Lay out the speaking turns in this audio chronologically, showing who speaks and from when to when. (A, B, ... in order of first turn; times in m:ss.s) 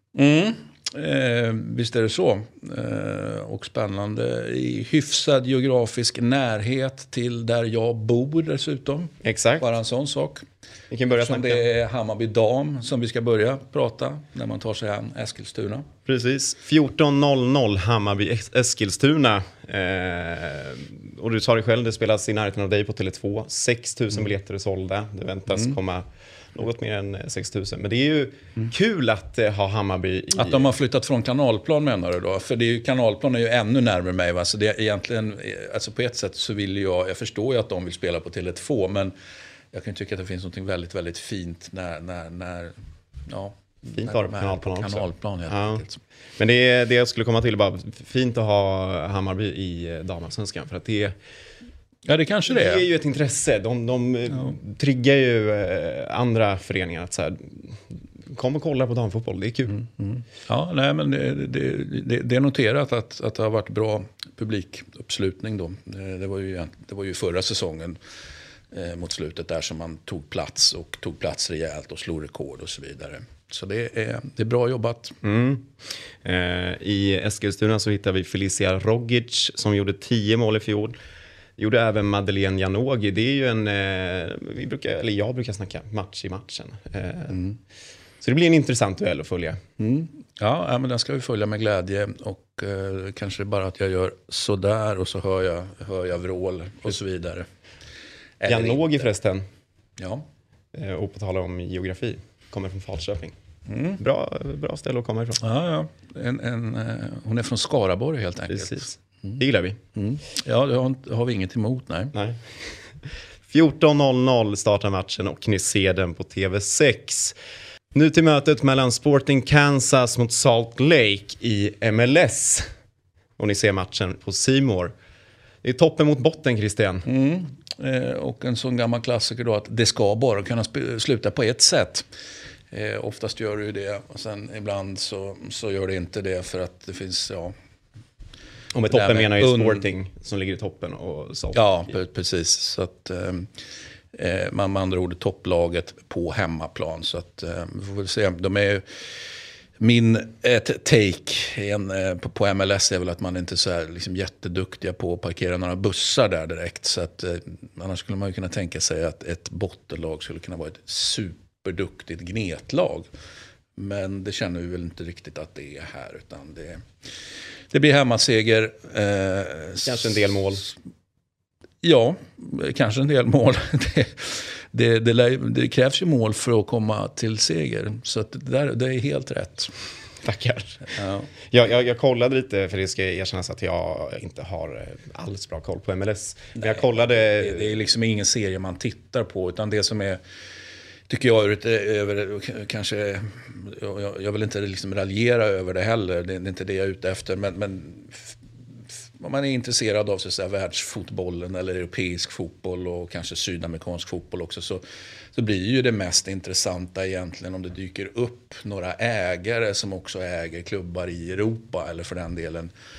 0:00.2-0:10.4 A
0:09.2-0:09.7 B
0:10.9-0:11.6 B
0:11.1-0:15.9 A
0:16.1-0:30.7 B
0:30.4-0:39.1 A
0:39.7-0:42.8 A
0:43.3-0:46.0 A
0:43.8-0:45.8 B
0:46.4-0:51.1 B
0:52.1-0:52.9 A
0:52.5-0:59.8 B
1:00.0-1:08.0 A
1:08.7-1:15.2 A
1:15.2-1:21.0 B
1:21.6-1:27.5 B
1:28.2-1:29.6 B
1:29.8-1:37.5 A
1:38.4-1:38.9 A
1:38.5-1:39.5 B
1:40.0-1:40.2 A
1:40.7-1:43.4 B
1:43.7-1:44.0 A
1:44.0-1:45.4 B
1:45.4-1:49.4 A
1:48.5-1:49.8 B
1:50.0-1:52.1 A
1:52.1-1:52.4 B
1:53.5-1:57.4 B
1:57.9-2:02.7 B
2:03.4-2:04.9 B
2:05.6-2:07.0 B
2:07.1-2:12.1 A
2:12.7-2:17.6 A
2:18.7-2:21.9 B
2:18.9-2:19.8 A
2:21.6-2:23.5 A
2:24.1-2:28.8 A
2:29.8-2:43.1 A
2:43.8-2:46.8 A
2:47.7-2:50.7 A
2:49.8-2:50.7 B
2:51.8-2:59.7 A
3:00.2-3:01.0 B
3:00.9-3:01.3 A
3:01.5-3:07.7 B
3:06.6-3:10.2 A
3:11.1-3:18.4 A
3:19.2-3:24.8 A
3:25.3-3:32.7 A